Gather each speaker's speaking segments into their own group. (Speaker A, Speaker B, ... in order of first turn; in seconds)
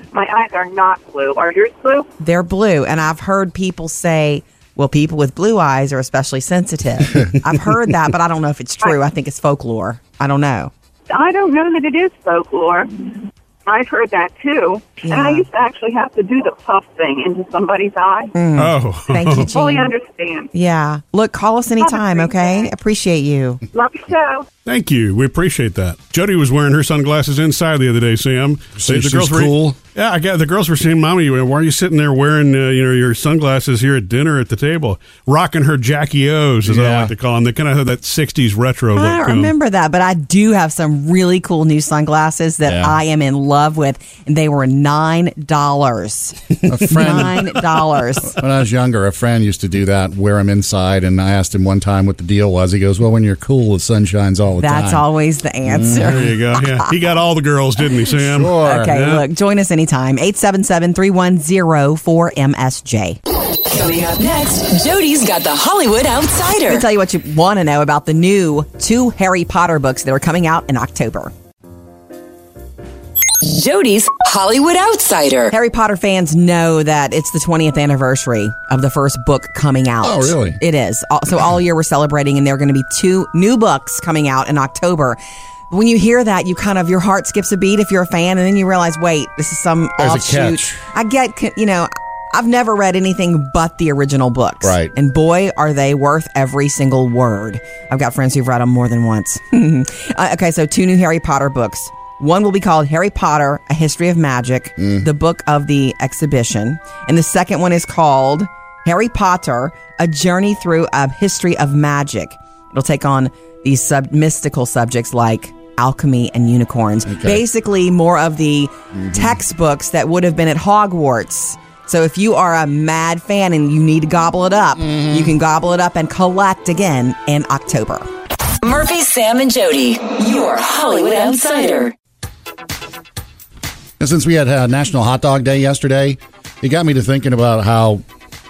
Speaker A: 0.1-2.1, 11.1-18.3, 19.4-20.5, 21.8-22.7, 23.7-24.5
Speaker B: 2.2-10.7, 15.0-15.4, 18.3-19.9, 20.5-23.6, 39.0-48.4, 54.6-56.9, 58.6-63.2, 66.7-71.3, 75.5-85.2, 85.7-128.1
Speaker C: 18.6-19.5, 24.6-39.5, 56.0-59.2
Speaker D: 28.8-29.8, 36.6-37.1, 42.6-43.0, 46.7-47.6, 48.2-55.0, 55.6-56.3, 58.2-59.0, 80.0-80.6, 90.0-90.8, 94.6-94.9, 104.8-105.1, 117.1-117.4, 118.9-119.4, 124.8-125.3, 134.0-138.0
Speaker E: 63.7-66.9, 73.4-75.5, 128.6-131.9